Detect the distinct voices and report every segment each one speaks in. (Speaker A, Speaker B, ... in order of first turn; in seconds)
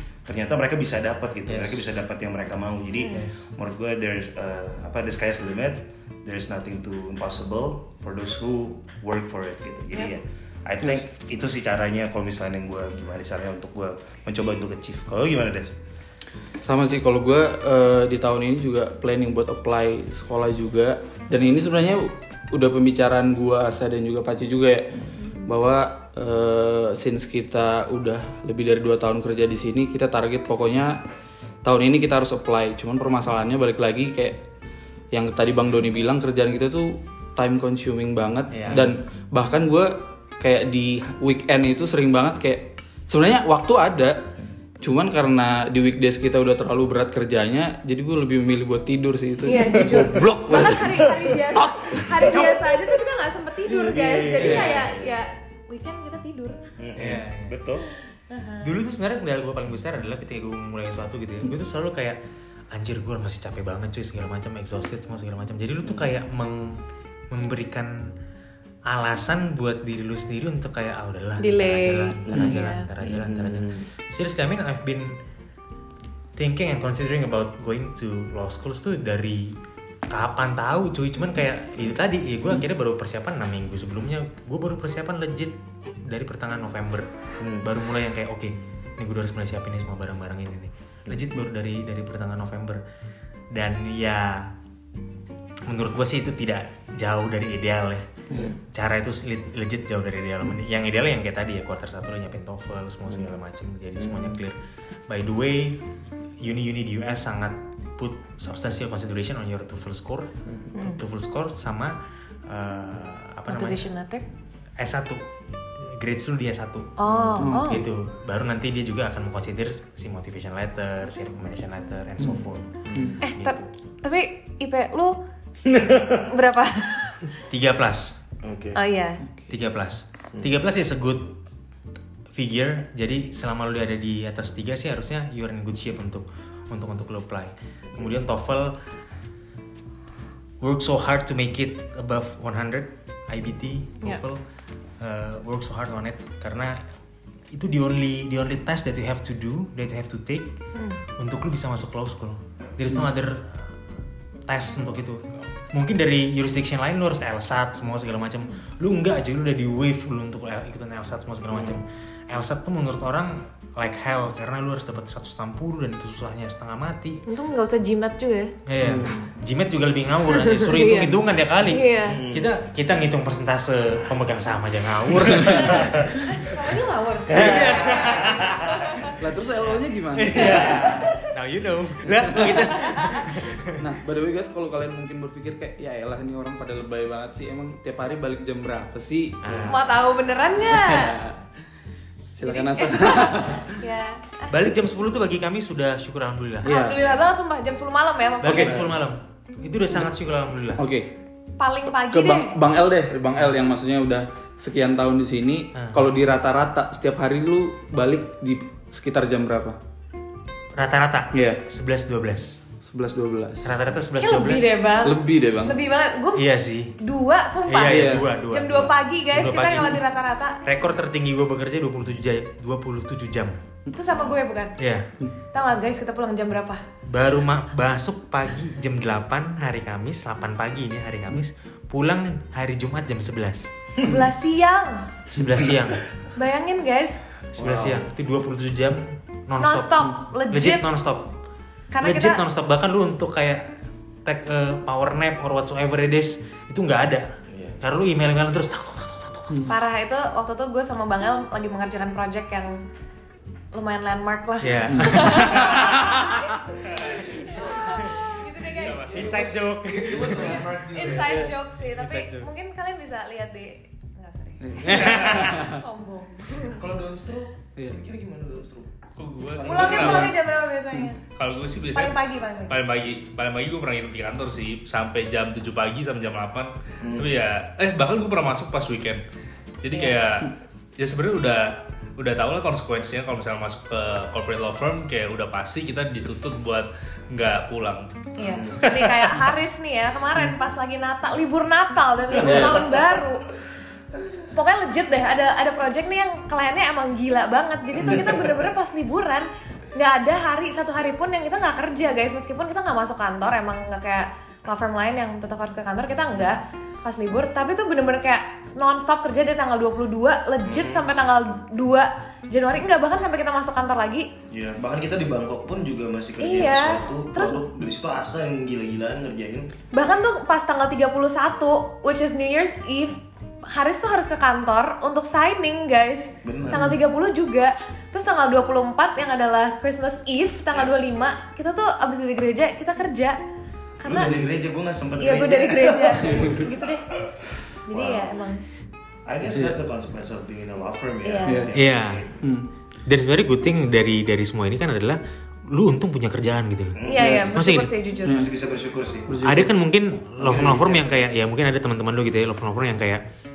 Speaker A: 0.3-15.8, 53.7-55.1, 56.8-57.9, 72.3-73.9, 87.4-87.7, 104.0-104.4, 117.1-117.4, 122.9-123.2, 125.7-126.3, 128.4-128.8, 161.5-161.8, 172.1-172.5, 175.7-176.1, 177.3-178.8, 180.3-181.1, 189.5-189.8, 198.5-198.9, 237.6-238.1, 247.5-247.8, 259.1-261.4, 266.6-268.9, 269.5-270.3, 277.0-277.3, 288.4-288.9, 292.4-293.1, 310.6-311.1, 314.5-319.7, 326.4-326.9, 334.0-336.7, 337.9-338.3, 339.3-342.4, 346.9-347.4, 348.3-349.4, 350.4-351.2
Speaker B: 1.5-2.0, 38.5-38.9, 57.0-57.6, 58.6-62.2, 62.7-68.1, 68.9-75.2, 76.4-79.6, 80.1-92.8, 93.5-94.5, 95.7-105.9, 106.4-113.8, 114.8-123.7, 127.5-128.2, 129.5-131.3, 132.3-138.8, 140.6-144.4, 145.0-146.9, 147.5-150.6, 151.2-153.8, 154.5-167.2, 168.7-176.2, 177.3-178.5, 179.6-183.9, 189.4-189.8, 194.5-196.7, 198.4-200.8, 205.8-206.0, 210.8-212.6, 213.6-214.8, 216.3-216.9, 217.7-220.0, 220.6-223.6, 224.8-225.1, 227.1-233.7, 235.3-236.0, 237.6-241.3, 242.0-247.3, 247.8-249.7, 254.6-256.3, 257.8-258.1, 259.1-260.7, 261.9-262.5, 264.8-265.4, 341.7-342.3, 343.1-347.9, 349.4-353.2
Speaker C: 16.6-31.0, 31.6-34.4, 35.1-44.3, 44.8-52.4, 54.4-54.8, 117.4-117.8, 129.2-129.5, 168.8-169.1, 179.2-180.4, 182.3-182.6, 183.8-189.6, 190.7-191.4, 192.3-193.8, 196.6-197.0, 200.8-201.1, 202.0-209.8, 211.3-211.6, 212.8-213.8, 215.0-215.8, 217.9-218.3, 254.9-255.2, 259.9-261.5, 264.6-265.8, 292.4-292.8, 339.5-339.8, 341.4-341.8, 342.4-342.7, 347.2-347.6, 348.2-348.5, 349.3-349.7
Speaker D: 49.5-56.6, 58.3-58.7, 71.4-72.9, 110.8-111.0, 113.5-114.2, 117.0-117.9, 123.2-125.2, 126.3-127.2, 128.8-129.2, 150.7-151.0, 167.3-168.5, 170.3-172.2, 175.7-179.2, 180.4-181.3, 182.4-183.3, 189.7-191.2, 192.4-194.5, 196.6-198.8, 201.6-202.6, 214.2-216.5, 217.0-220.6, 223.9-224.8, 225.5-226.8, 233.9-235.1, 236.3-237.2, 239.6-240.9, 241.9-242.4, 249.7-252.8, 253.7-259.5, 260.4-266.8, 269.6-271.2, 271.9-272.8, 279.9-280.2, 288.4-293.5, 294.5-314.3, 316.4-317.6, 319.9-333.4, 334.0-334.4, 335.2-337.1, 337.9-338.6, 341.2-341.7, 347.1-348.5
Speaker E: 258.7-259.4, 265.0-265.5, 269.2-270.4, 271.4-279.2, 279.8-288.1, 288.8-289.3